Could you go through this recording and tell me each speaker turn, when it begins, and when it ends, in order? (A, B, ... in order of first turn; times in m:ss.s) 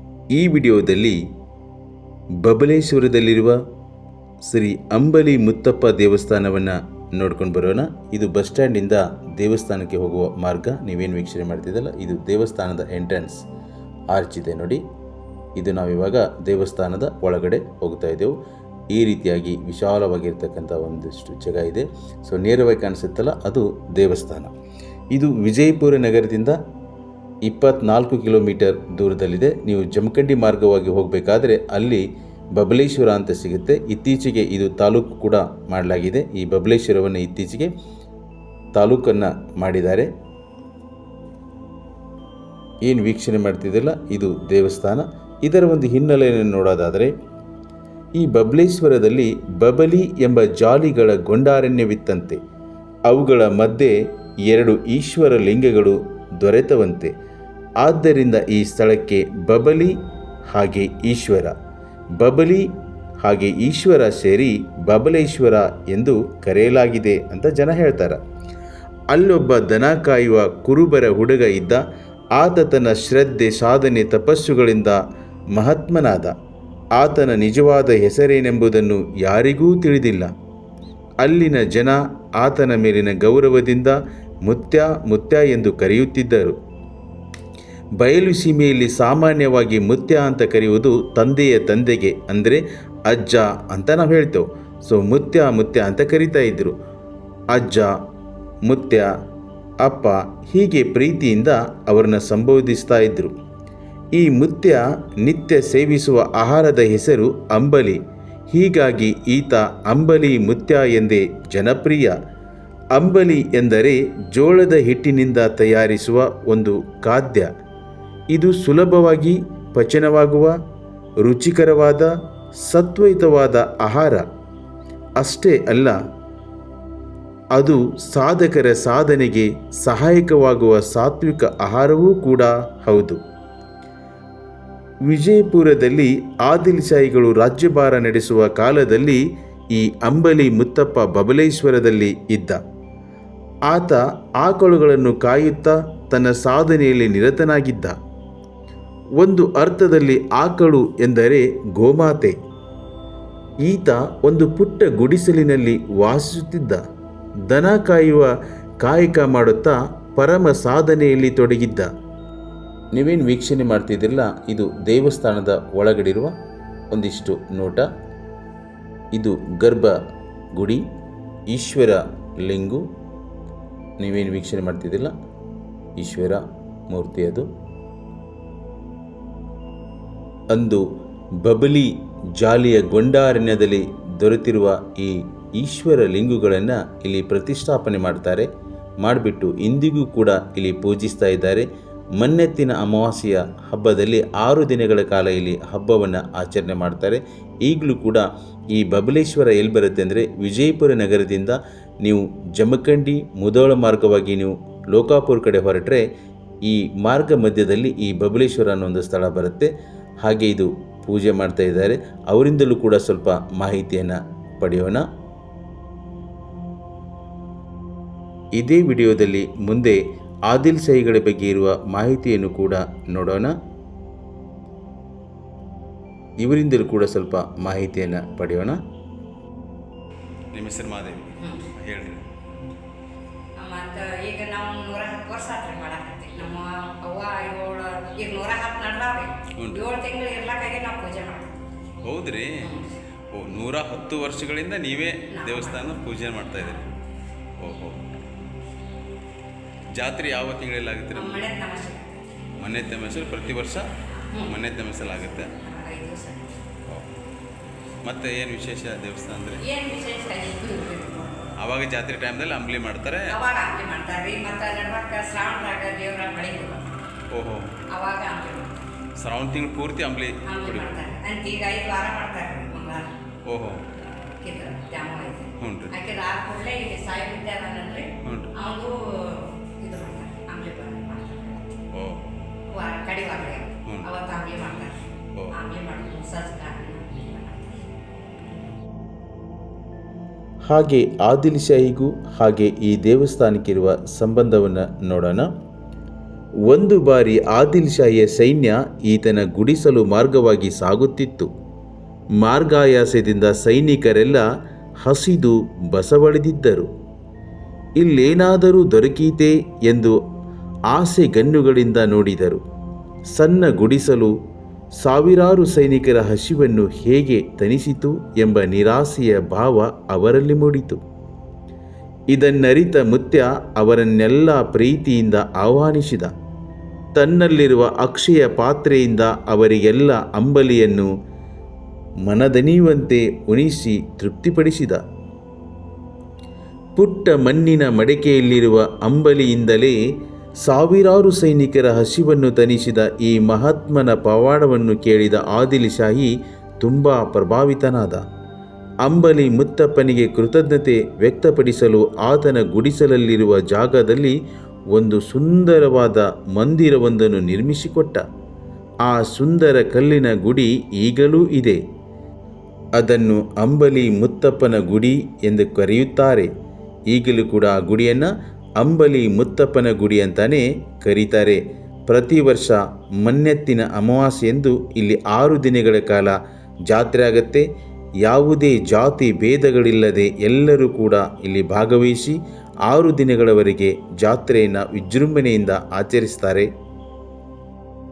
0:00.3-0:01.2 A
0:02.4-0:03.6 A
0:04.4-0:13.4 A
0:14.1-0:14.8 A
0:15.6-0:18.3 A
0:18.9-0:24.5 A
0:25.1-0:26.6 A
0:27.4-0:32.0 A
0:32.6-0:37.7 A
0:38.7-0:40.1 A
0:42.8-0:47.1 A
0:48.2-0:52.4 A
0:53.1-0:53.9 A
0:54.5-0:57.1 A
0:57.8-0:59.9 A
1:00.5-1:01.5 A
1:02.2-1:02.7 A
1:03.2-1:08.2 A
1:09.1-1:11.8 A
1:12.4-1:15.0 A
1:15.5-1:16.3 A
1:17.0-1:20.3 A
1:21.2-1:26.6 A
1:28.0-1:36.7 A
1:37.5-1:37.9 A
1:38.6-1:39.1 A
1:39.8-1:43.3 A
1:44.1-1:48.0 A
1:48.5-1:52.2 A
1:52.9-1:57.5 A
1:58.3-2:00.6 A
2:01.2-2:04.2 A
2:05.2-2:06.0 A
2:07.5-2:13.2 A
2:15.1-2:19.2 A
2:19.7-2:22.6 A
2:23.7-2:27.9 A
2:29.2-2:32.4 A
2:33.6-2:36.8 A
2:37.5-2:38.3 A
2:38.8-2:41.9 A
2:42.9-2:46.3 A
2:46.9-2:47.8 A
2:49.1-2:49.9 A
2:50.5-2:50.8 A
2:51.5-2:52.8 A
2:54.0-2:55.1 A
2:56.0-2:57.5 A
3:00.5-3:00.8 A
3:01.4-3:08.5 A
3:09.0-3:11.7 A
3:12.2-3:26.0 A
3:26.6-3:29.7 A
3:30.2-3:35.0 A
3:38.6-3:43.5 A
3:46.4-3:48.8 A
3:50.5-3:52.3 A
3:51.4-3:51.7 B
3:53.6-4:01.7 B
4:02.0-4:02.6 A
4:02.6-4:02.9 B
4:03.3-4:07.0 A
4:05.3-4:06.0 B
4:06.6-4:06.8 B
4:07.6-4:08.0 A
4:10.0-4:11.4 A
4:11.1-4:12.3 B
4:12.6-4:13.9 A
4:14.2-4:14.6 B
4:14.4-4:15.5 A
4:15.6-4:16.6 B
4:18.0-4:19.6 A
4:19.6-4:21.5 B
4:21.6-4:23.4 A
4:23.3-4:27.0 B
4:27.3-4:27.7 A
4:27.9-4:28.9 B
4:29.2-4:30.9 A
4:30.4-4:33.1 B
4:33.4-4:33.8 A
4:34.0-4:41.8 B
4:35.6-4:35.9 A
4:38.2-4:38.5 A
4:41.9-4:42.4 A
4:42.7-4:47.8 B
4:50.7-4:55.5 A
4:56.7-5:01.5 A
5:02.4-5:04.4 A
5:05.0-5:06.9 A
5:08.0-5:10.2 A
5:10.9-5:12.6 A
5:13.3-5:14.3 A
5:15.0-5:21.0 A
5:22.3-5:26.3 A
5:27.1-5:31.1 A
5:32.2-5:35.0 A
5:37.0-5:40.0 A
5:40.6-5:48.2 A
5:49.0-5:54.4 A
5:54.9-5:58.2 A
5:59.0-6:01.8 A
6:03.0-6:06.5 A
6:07.1-6:16.4 A
6:16.9-6:17.6 A
6:18.2-6:26.7 A